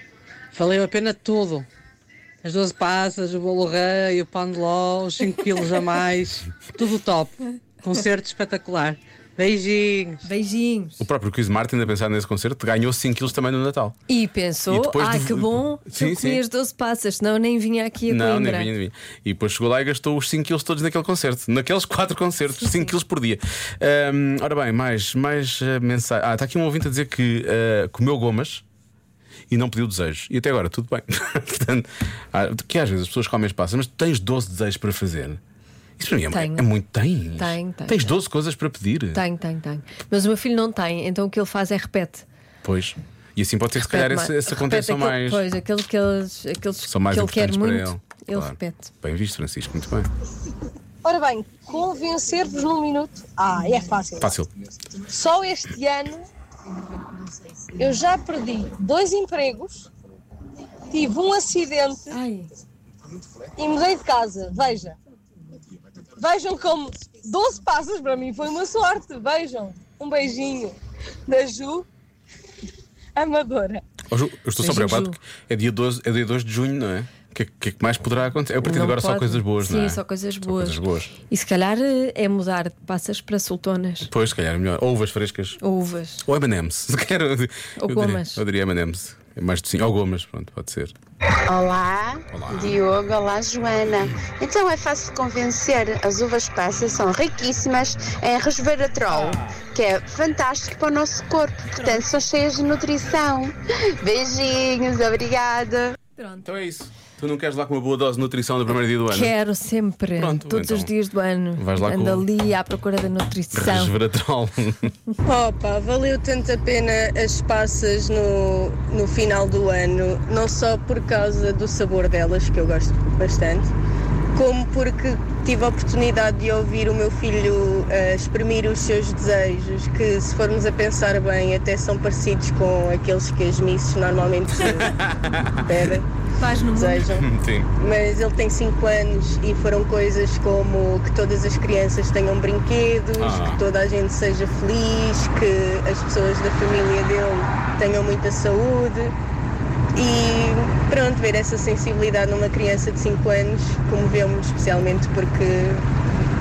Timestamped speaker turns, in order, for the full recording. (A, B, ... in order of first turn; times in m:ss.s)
0:00.5-0:01.7 A
0:02.4-0:10.2 A
0:10.2-0:11.1 B
0:11.0-0:14.0 C
0:14.1-0:18.7 B
0:14.7-0:16.4 C
0:18.1-0:28.6 C
0:29.5-0:35.4 C
0:36.0-0:39.2 C
0:36.3-0:36.7 B
0:37.4-0:38.2 B
0:39.1-0:42.3 B
0:42.6-0:45.4 C
0:43.8-0:48.9 B
0:46.9-0:50.1 C
0:51.0-0:54.3 D
0:54.2-0:54.5 C
0:55.0-0:56.3 D
0:57.8-0:59.9 D
1:00.9-1:02.2 D
1:02.1-1:02.4 B
1:03.6-1:05.0 D
1:06.2-1:10.8 D
1:11.3-1:11.9 D
1:13.2-1:13.8 D
1:14.1-1:21.1 C
1:14.6-1:15.2 B
1:18.6-1:24.1 B
1:24.1-1:25.6 C
1:25.6-1:26.2 B
1:26.2-1:31.0 C
1:27.8-1:28.4 B
1:31.5-1:46.0 E
1:32.3-1:32.7 C
1:46.2-1:46.5 B
1:46.4-1:49.4 C
1:49.1-1:54.0 B
1:50.2-1:50.9 C
1:51.6-1:52.3 C
1:53.5-1:54.9 C
1:55.3-2:03.7 F
2:04.4-2:15.0 F
2:15.6-2:16.1 F
2:16.4-2:17.1 B
2:16.7-2:29.1 F
2:17.2-2:17.7 C
2:23.2-2:23.6 C
2:30.0-2:35.8 F